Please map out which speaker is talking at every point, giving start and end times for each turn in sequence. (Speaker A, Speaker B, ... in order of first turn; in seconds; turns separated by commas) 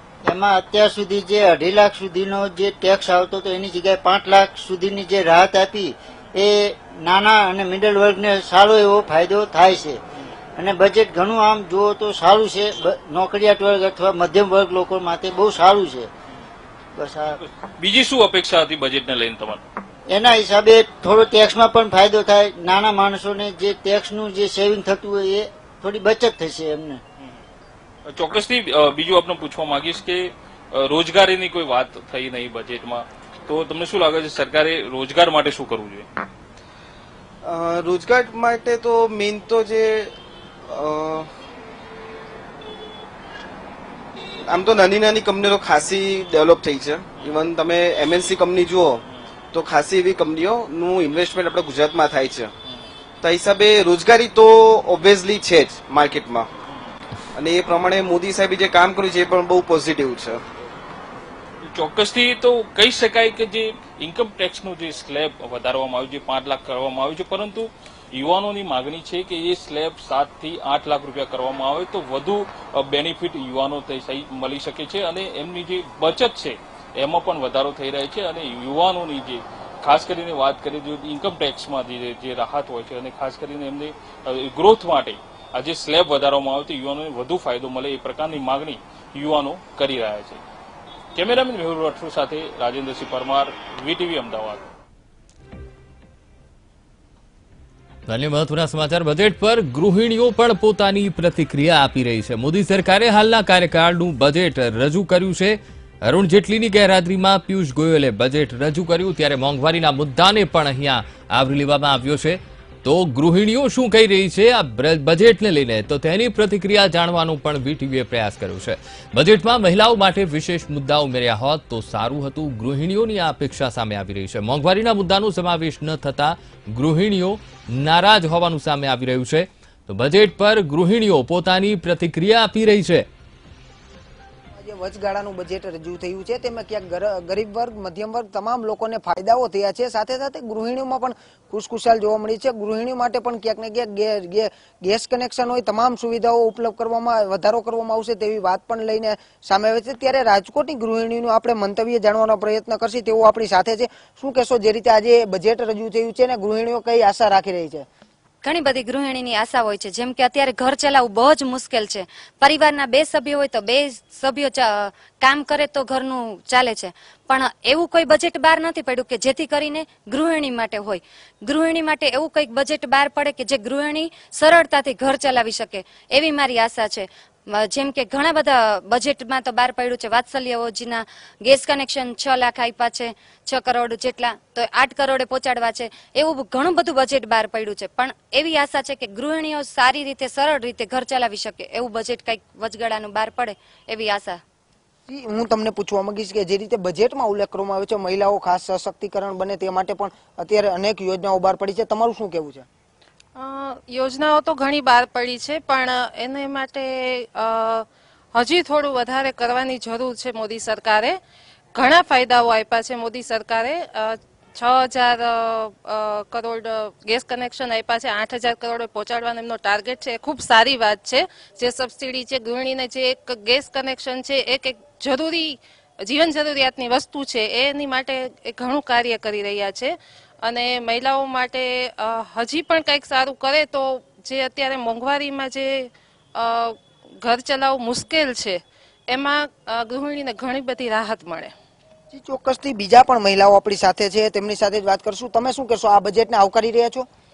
Speaker A: 0.2-10.0, Speaker A: 10.6-16.1, Speaker A: 16.9-17.4, Speaker B: 17.4-19.6, Speaker A: 20.1-27.0, Speaker B: 28.1-36.0, Speaker C: 37.4-40.1, Speaker C: 40.7-41.3, Speaker C: 44.5-52.5, Speaker C: 53.2-56.5, Speaker C: 57.4-60.4, Speaker B: 61.6-90.4, Speaker B: 91.1-94.6, Speaker D: 98.1-133.1, Speaker E: 134.6-157.8, Speaker F: 158.4-194.4, Speaker E: 195.1-202.7, Speaker G: 203.3-211.2, Speaker G: 211.7-241.5, Speaker E: 242.1-247.1